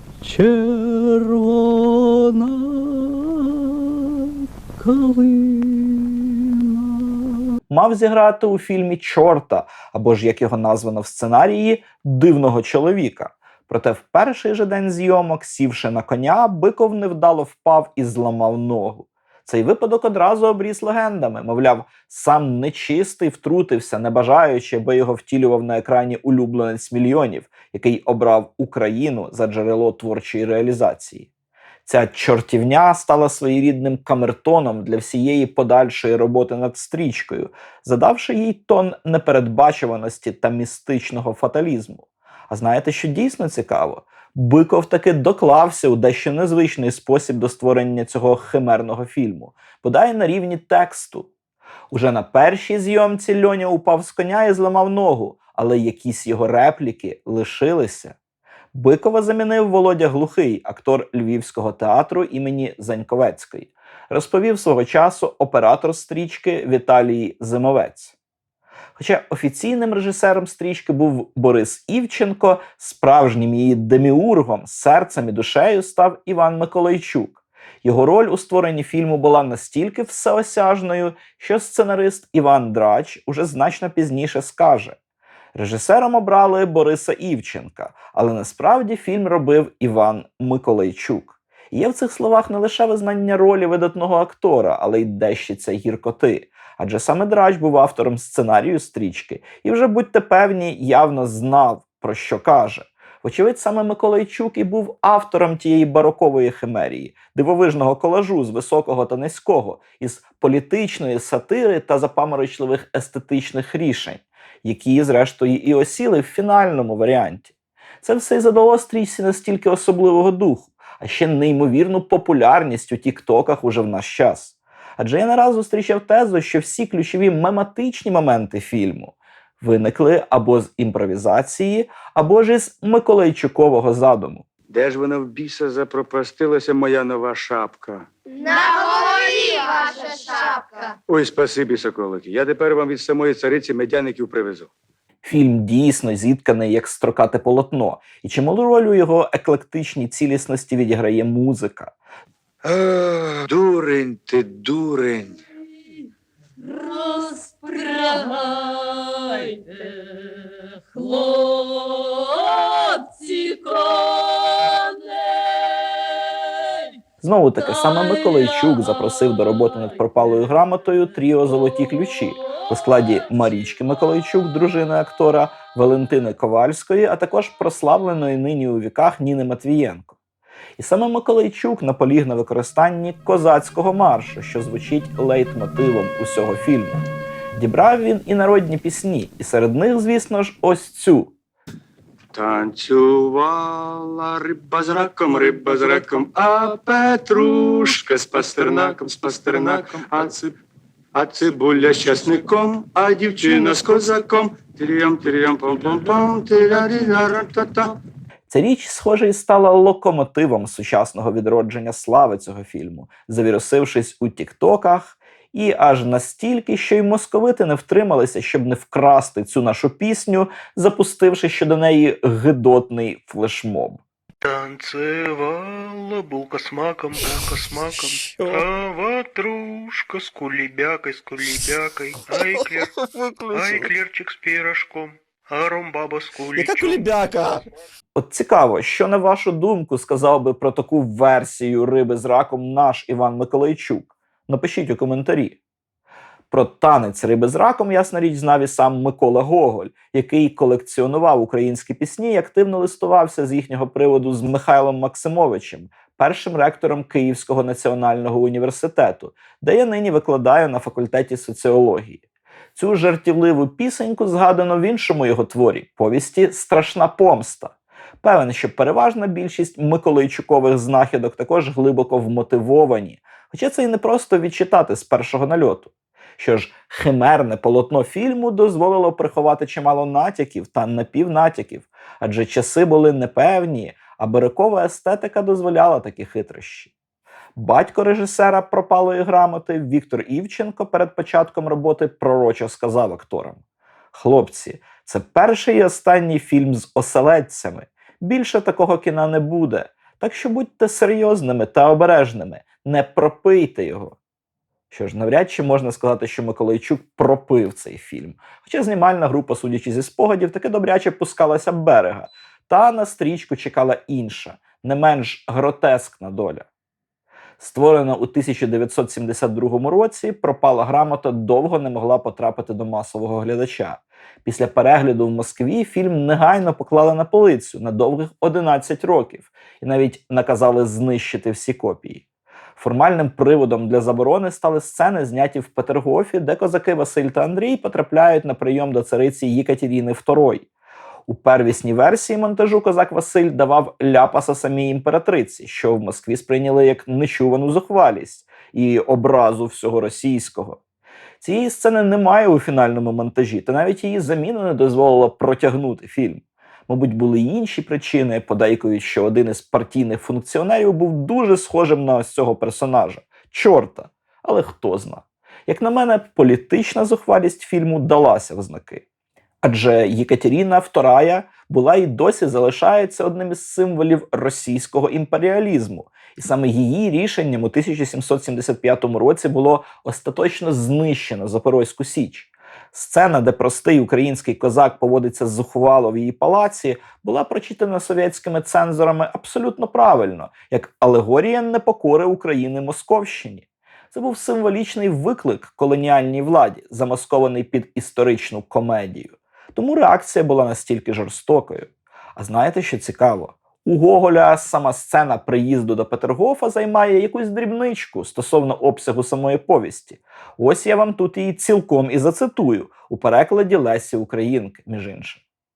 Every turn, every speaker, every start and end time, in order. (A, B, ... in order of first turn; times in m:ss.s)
0:00.3-0:07.5 A
0:07.7-0:31.3 B
0:31.8-0:51.3 B
0:51.9-0:58.2 B
0:58.7-1:08.1 B
1:09.0-1:25.0 B
1:25.5-2:14.4 B
2:14.7-2:18.0 C
2:18.3-2:20.9 D
2:21.1-2:24.7 C
2:25.2-2:31.9 B
2:32.7-2:35.3 E
2:36.9-2:39.9 F
2:41.0-2:45.8 F
2:47.2-3:00.2 B
3:00.8-3:11.3 B
3:12.3-3:20.5 C
3:21.1-3:28.0 C
3:28.5-3:44.0 B
3:44.4-3:53.0 F
3:53.3-3:53.9 A
3:53.5-3:57.6 F
3:56.6-3:57.6 A
3:58.1-4:05.6 B
4:06.5-4:22.2 B
4:22.7-4:46.9 B
4:47.6-4:53.6 B
4:54.1-5:04.2 B
5:04.9-5:16.6 B
5:17.6-5:32.2 B
5:32.8-5:40.7 B
5:41.3-5:50.8 B
5:51.4-6:09.0 B
6:09.6-6:55.4 B